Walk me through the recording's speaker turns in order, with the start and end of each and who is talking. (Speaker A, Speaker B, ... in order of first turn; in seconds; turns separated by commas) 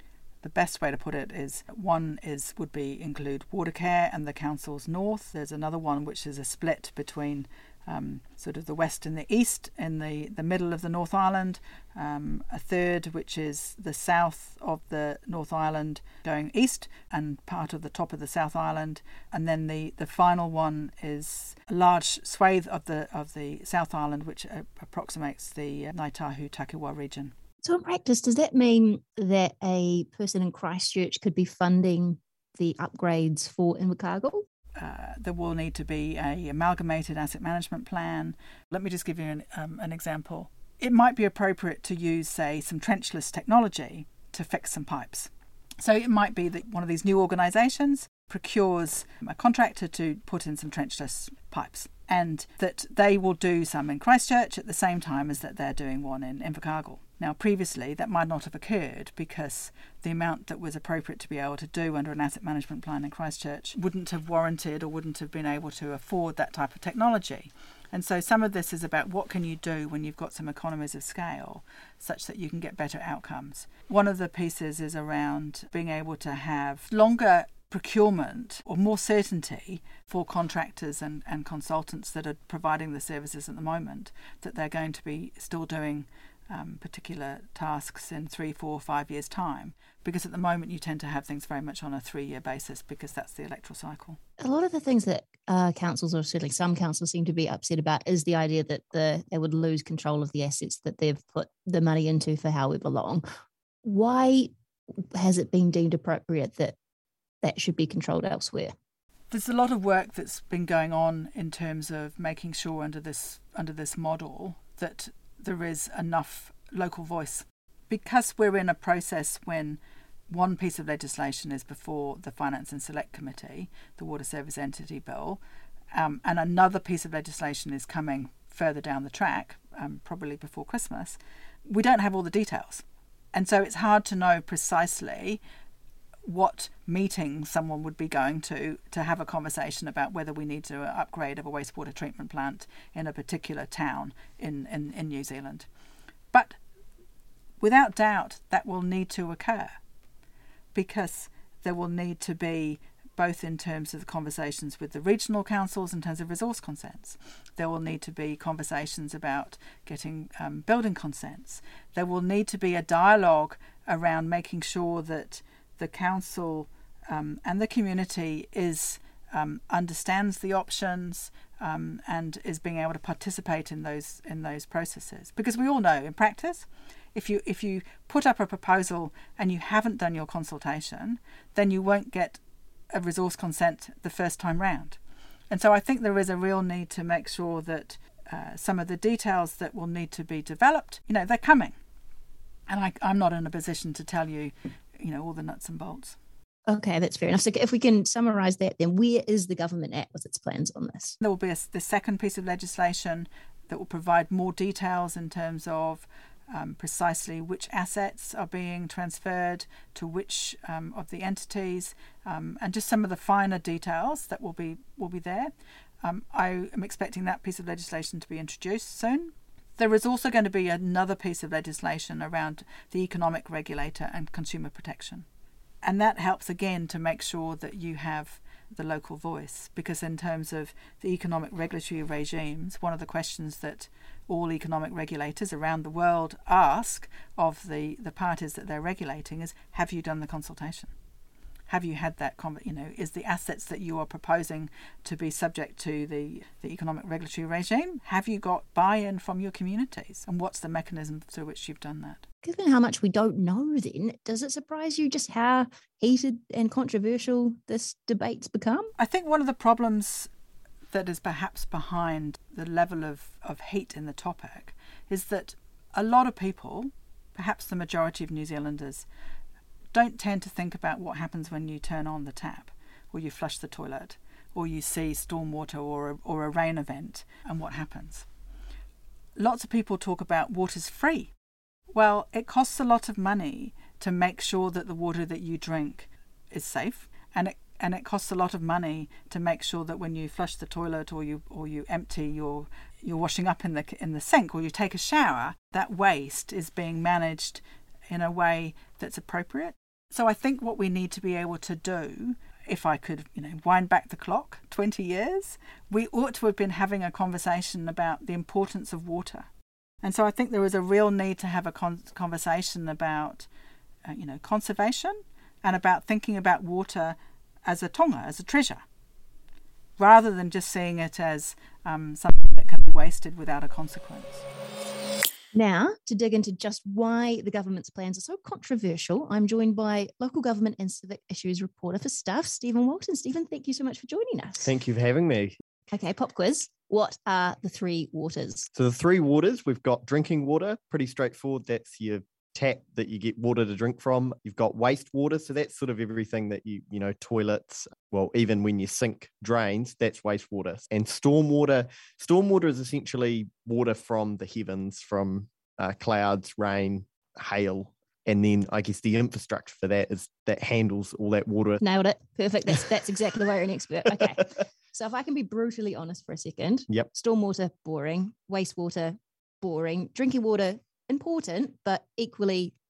Speaker A: 0.4-27.3, Speaker B: 27.6-34.4, Speaker A: 34.8-94.2, Speaker B: 94.4-103.2, Speaker B: 103.8-104.5, Speaker B: 105.1-106.7, Speaker B: 107.4-108.7, Speaker A: 109.3-125.4, Speaker A: 125.9-132.8, Speaker A: 133.3-135.4, Speaker A: 136.2-145.7, Speaker A: 146.3-146.6, Speaker A: 147.6-149.8, Speaker A: 150.7-182.4, Speaker A: 182.9-185.0, Speaker A: 185.5-191.8, Speaker A: 192.7-196.2, Speaker B: 196.7-201.2, Speaker A: 201.2-225.2, Speaker A: 225.8-240.9, Speaker A: 241.7-252.2, Speaker B: 252.4-258.9, Speaker A: 259.0-260.3, Speaker A: 260.9-269.1, Speaker A: 269.9-278.2, Speaker A: 279.4-281.3, Speaker A: 281.9-309.4, Speaker A: 310.0-313.4, Speaker A: 314.1-318.8, Speaker A: 320.0-324.4, Speaker B: 325.5-334.7, Speaker C: 334.6-335.6, Speaker B: 335.9-338.7, Speaker C: 338.7-361.8, Speaker B: 361.8-372.7